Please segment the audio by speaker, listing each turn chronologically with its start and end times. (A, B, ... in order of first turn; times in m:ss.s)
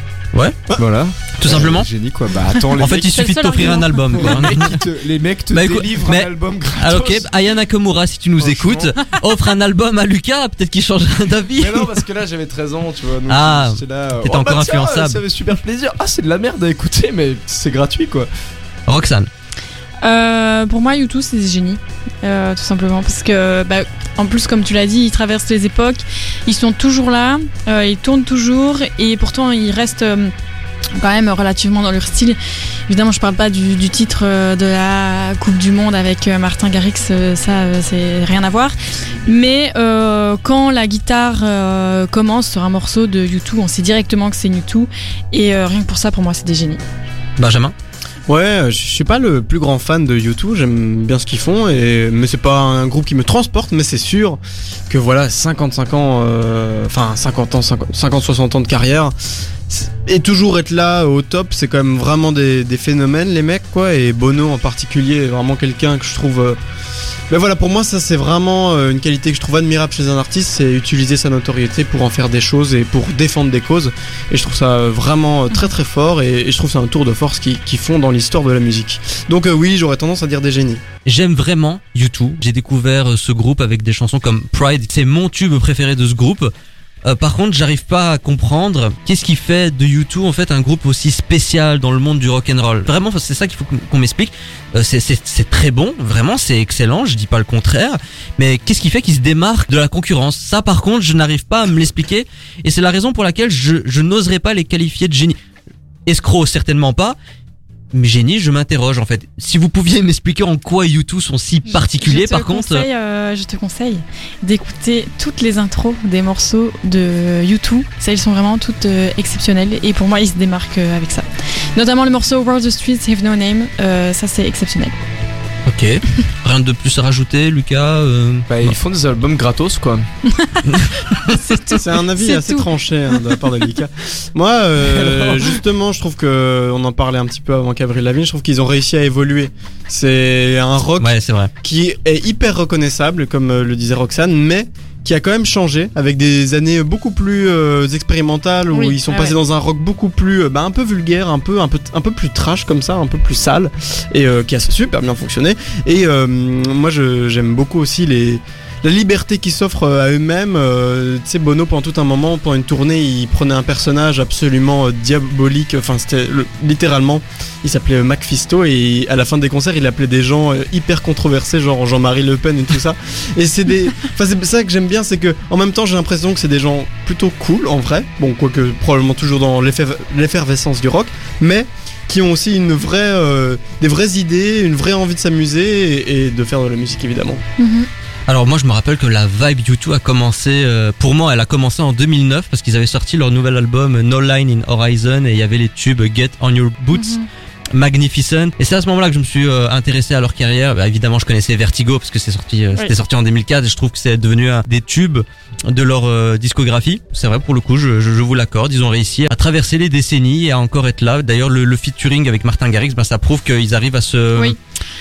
0:00.3-0:00.6 A
0:00.8-0:07.3 B
0:01.4-0:01.9 A
0:02.5-0:04.7 C
0:02.8-0:04.8 A
0:05.5-0:11.9 A
0:08.4-0:08.9 B
0:11.6-0:18.3 B
0:13.3-0:15.2 A
0:18.9-0:19.3 A
0:20.0-0:30.3 C
0:31.0-0:46.8 C
0:47.4-0:47.7 A
0:48.3-0:59.1 D
0:59.7-1:06.6 D
1:07.3-1:20.8 D
1:21.0-1:26.5 A
1:27.0-1:45.4 A
1:46.0-1:47.2 A
1:47.9-1:52.8 A
1:51.7-2:05.0 C
2:05.6-2:08.7 A
2:08.5-2:10.1 B
2:10.6-2:11.4 A
2:11.1-2:12.7 C
2:11.7-2:21.1 D
2:14.8-2:15.4 B
2:21.0-2:21.5 A
2:21.6-3:07.4 D
2:28.7-2:29.4 C
3:07.6-3:07.9 C
3:08.3-3:17.2 A
3:16.9-3:17.3 C
3:17.7-3:34.6 A